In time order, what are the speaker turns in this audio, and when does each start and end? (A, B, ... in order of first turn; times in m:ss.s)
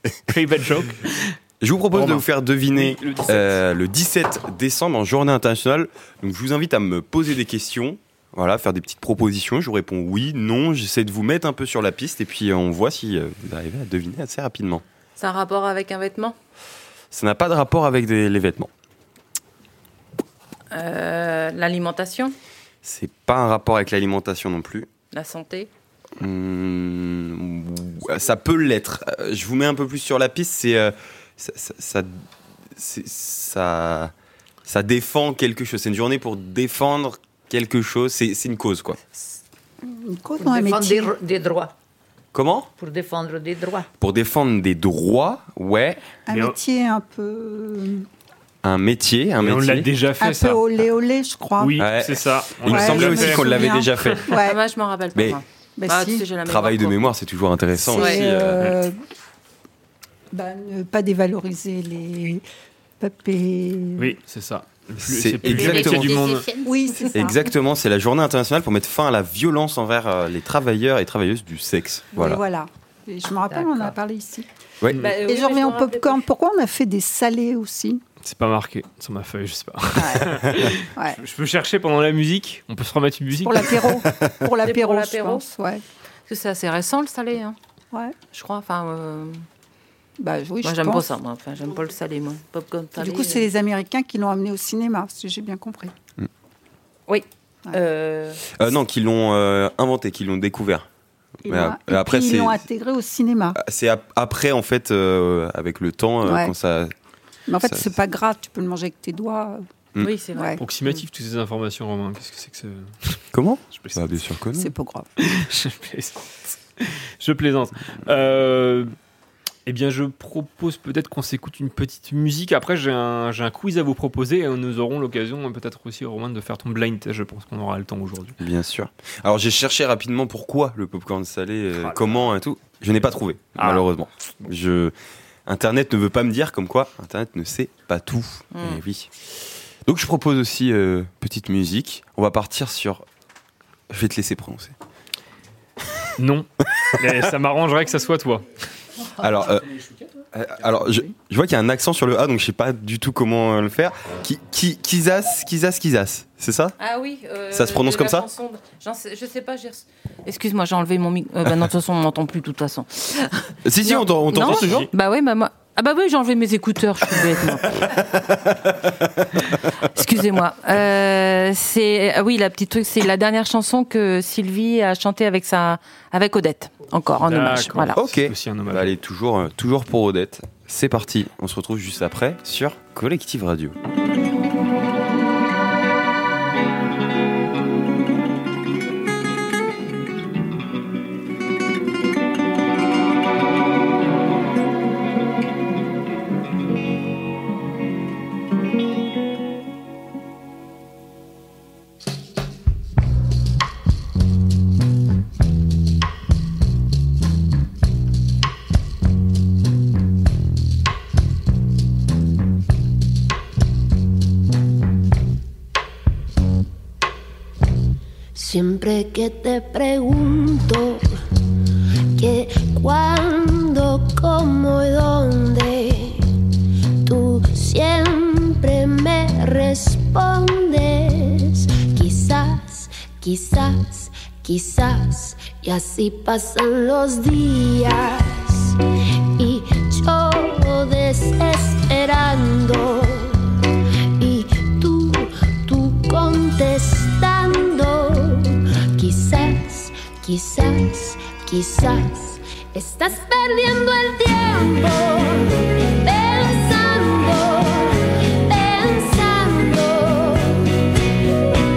0:00.3-0:01.3 A
0:01.6-0:14.8 B
0:01.9-0:03.6 A
0:15.2-0:16.4 C
0:17.1-0:18.7 B
0:20.7-0:22.3 C
0:22.8-0:24.9 B
0:25.1-0:25.7 C
0:26.2-0:32.2 B
0:32.8-0:34.1 B
0:34.6-0:39.0 B
0:39.8-0:41.1 D
0:40.4-0:41.7 E
0:42.3-0:42.7 B
0:42.8-0:43.9 E
0:44.0-0:46.2 B
0:46.2-0:48.0 D
0:46.3-0:46.6 A
0:48.6-0:49.9 B
0:49.4-0:50.7 A
0:50.2-0:51.8 D
0:51.6-0:54.4 A
0:51.8-0:54.2 B
0:52.6-0:54.6 D
0:54.3-0:57.1 C
0:55.8-0:56.3 D
0:56.4-0:58.7 B
0:57.8-0:58.9 D
0:57.9-0:58.2 C
1:00.3-1:02.4 D
1:03.0-1:04.2 D
1:04.0-1:06.5 A
1:05.0-1:06.3 B
1:05.4-1:07.1 C
1:06.6-1:07.4 D
1:07.1-1:12.4 B
1:12.1-1:14.5 D
1:13.5-1:13.9 E
1:15.0-1:16.2 C
1:15.1-1:18.0 D
1:18.2-1:24.0 A
1:20.0-1:20.4 D
1:23.4-1:25.8 D
1:24.6-1:25.4 C
1:26.3-1:27.6 C
1:28.3-1:29.4 C
1:30.2-1:31.1 D
1:30.6-1:33.5 C
1:33.0-1:35.9 D
1:37.1-1:38.4 C
1:38.5-1:40.8 B
1:41.4-1:42.6 B
1:41.4-1:43.6 D
1:43.6-1:46.9 B
1:46.2-1:46.5 D
1:47.5-1:49.6 D
1:47.6-1:47.9 B
1:50.0-1:51.0 C
1:50.3-1:50.6 D
1:50.6-1:53.2 A
1:53.3-1:54.7 B
1:53.7-1:54.2 A
1:54.6-1:55.1 D
1:55.2-1:58.9 A
1:59.6-2:08.3 A
2:08.4-2:14.9 B
2:11.8-2:12.3 A
2:13.5-2:13.9 A
2:15.4-2:19.1 B
2:18.5-2:18.8 C
2:19.8-2:23.0 B
2:23.9-2:24.7 B
2:26.2-2:28.4 A
2:29.2-2:29.7 B
2:30.3-2:36.7 B
2:36.8-2:47.9 C
2:37.5-2:38.2 B
2:43.6-2:44.9 B
2:44.4-2:44.8 A
2:49.8-2:58.0 C
2:57.2-2:58.9 A
2:57.9-3:03.8 B
3:38.3-3:41.0 F
3:42.2-3:46.2 F
3:47.0-3:58.8 F
3:59.4-4:03.4 F
4:04.2-4:20.7 F